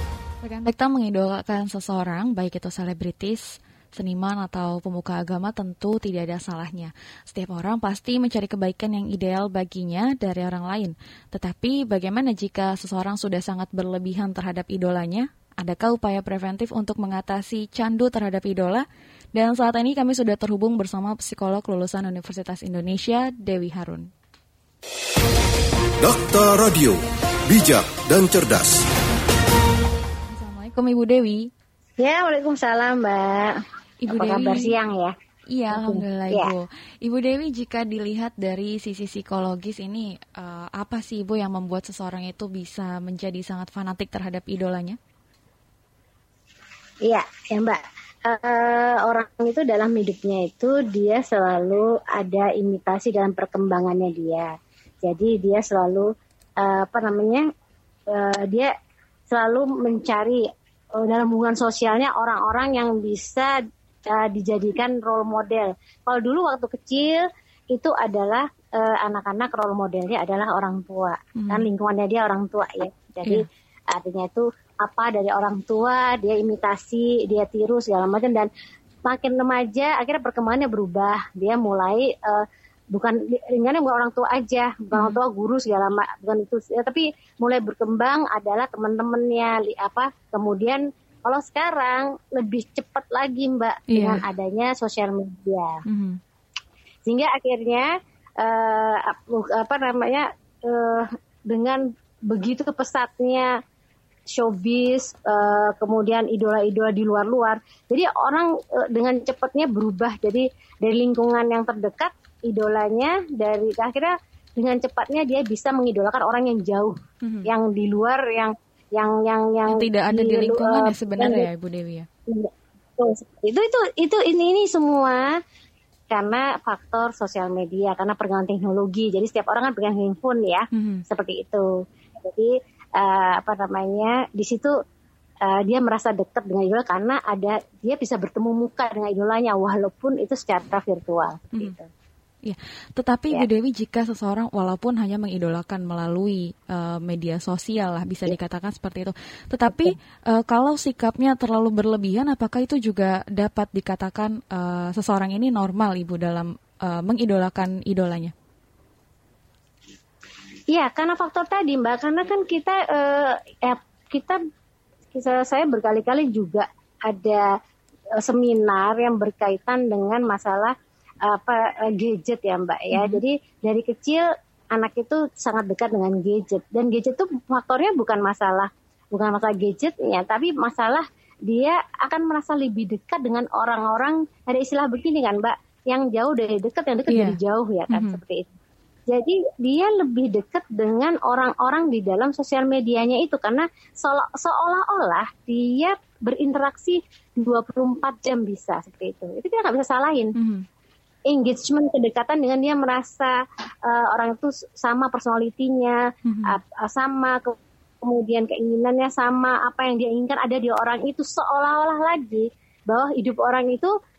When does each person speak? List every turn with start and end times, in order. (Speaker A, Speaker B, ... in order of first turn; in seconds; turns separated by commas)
Speaker A: 0.4-24.1, Speaker B: 26.0-28.9, Speaker A: 30.3-31.5, Speaker C: 32.0-35.1, Speaker A: 34.0-34.8, Speaker A: 35.5-45.0, Speaker C: 35.7-36.5, Speaker C: 47.0-54.5, Speaker C: 55.0-57.5, Speaker C: 58.1-58.7, Speaker C: 59.3-60.5, Speaker C: 61.0-63.5, Speaker C: 64.1-78.5, Speaker A: 71.4-71.7, Speaker C: 79.1-95.8, Speaker A: 84.9-85.2, Speaker A: 93.9-94.2, Speaker A: 95.9-96.2, Speaker C: 97.1-103.6, Speaker C: 104.3-121.5, Speaker A: 117.2-117.5, Speaker A: 119.7-122.1, Speaker C: 122.3-125.3, Speaker C: 126.1-134.7, Speaker A: 130.7-131.1, Speaker C: 135.4-141.9, Speaker A: 142.4-158.3, Speaker C: 149.7-149.9, Speaker C: 160.7-164.4, Speaker C: 165.1-167.5, Speaker C: 168.2-170.7, Speaker C: 171.3-188.5, Speaker A: 172.9-173.2, Speaker A: 187.1-187.4, Speaker A: 187.9-188.2, Speaker C: 189.1-200.3, Speaker A: 200.3-200.7, Speaker C: 201.3-213.9, Speaker A: 206.3-206.6